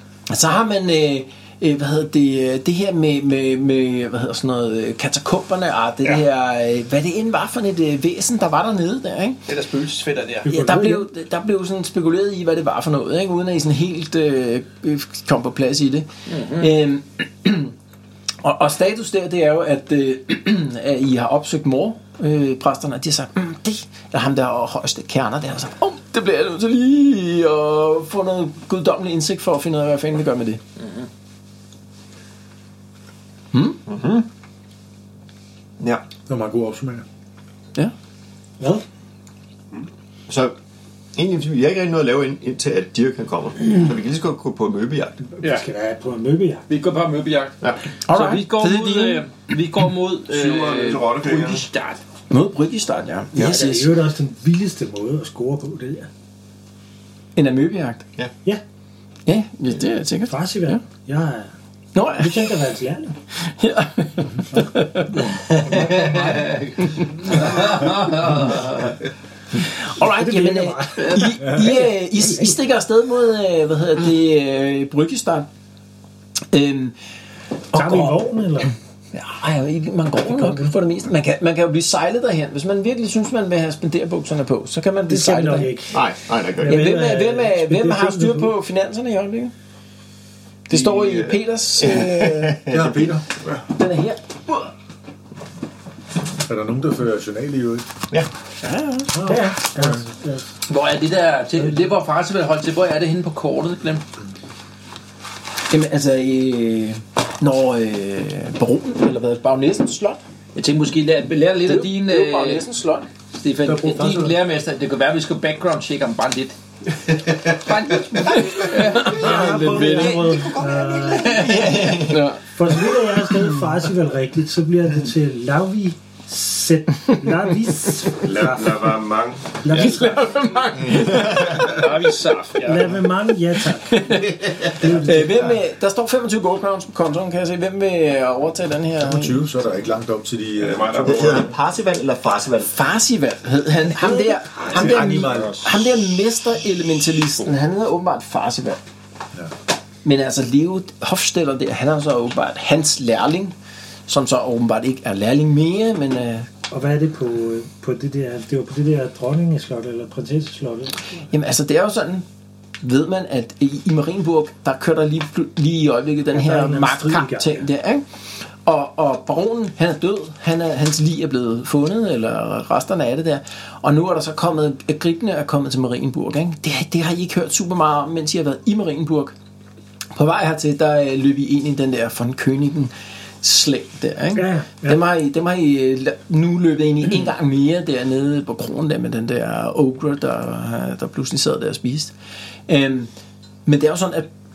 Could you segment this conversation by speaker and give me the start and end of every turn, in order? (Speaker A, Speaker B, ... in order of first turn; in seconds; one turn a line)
Speaker A: 0.3-9.4
Speaker B: 9.5-10.5
Speaker C: 10.4-11.1
Speaker A: 10.5-17.7
Speaker B: 16.3-16.7
Speaker A: 18.4-30.6
Speaker B: 30.8-31.1
Speaker A: 33.5-33.8
Speaker D: 33.9-34.3
Speaker D: 35.8-36.0
Speaker E: 36.3-37.0
Speaker C: 38.6-38.9
Speaker D: 40.3-40.6
Speaker D: 41.1-45.2
Speaker C: 45.4-46.7
Speaker B: 45.4-45.7
Speaker B: 46.7-47.6
Speaker A: 48.1-49.2
Speaker B: 48.1-52.0
Speaker F: 50.3-51.7
Speaker A: 52.3-54.0
Speaker C: 53.4-56.1
Speaker A: 57.4-58.0
Speaker A: 59.3-60.8
Speaker C: 60.3-61.5
Speaker A: 62.0-62.6
Speaker C: 62.1-63.2
Speaker A: 63.4-65.2
Speaker C: 64.5-66.6
Speaker B: 65.3-69.0
Speaker A: 66.8-67.3
Speaker A: 69.6-75.5
Speaker C: 70.0-72.6
Speaker B: 71.0-71.3
Speaker A: 76.5-77.0
Speaker A: 77.7-78.3
Speaker C: 77.7-78.7
Speaker A: 79.1-85.9
Speaker C: 80.2-80.8
Speaker C: 85.1-88.5
Speaker D: 85.9-86.9
Speaker A: 86.6-89.5
Speaker A: 90.7-92.7
Speaker F: 90.7-91.4
Speaker D: 91.8-93.2
Speaker E: 92.7-93.2
Speaker A: 93.7-94.7
Speaker E: 96.5-97.9
Speaker A: 98.6-99.5
Speaker C: 99.1-100.5
Speaker B: 100.7-104.0
Speaker A: 105.7-110.2
Speaker B: 110.5-112.7
Speaker A: 111.6-113.1
Speaker B: 113.3-116.6
Speaker E: 113.6-114.4
Speaker B: 117.5-119.4
Speaker D: 118.2-122.3
Speaker A: 118.6-120.5
Speaker C: 119.0-121.7
Speaker B: 121.5-121.8
Speaker A: 121.5-122.4
Speaker C: 122.4-128.9
Speaker F: 128.2-129.9
Speaker C: 129.6-130.5
Speaker A: 129.7-131.7
Speaker D: 130.8-131.8
Speaker B: 131.1-133.0
Speaker C: 132.6-135.6
Speaker A: 133.9-134.3
Speaker D: 134.1-135.4
Speaker A: 134.9-139.4
Speaker E: 139.0-141.5
Speaker F: 140.6-141.5
Speaker D: 141.1-142.7
Speaker A: 142.7-148.8
Speaker E: 144.6-145.8
Speaker A: 150.0-153.5
Speaker A: 154.1-156.5
Speaker C: 156.7-161.3
Speaker A: 161.3-162.2
Speaker A: 162.8-168.1
Speaker C: 166.3-167.6
Speaker A: 168.6-179.3
Speaker A: 180.2-192.1
Speaker C: 184.3-185.0
Speaker A: 192.7-193.1
Speaker A: 193.7-194.3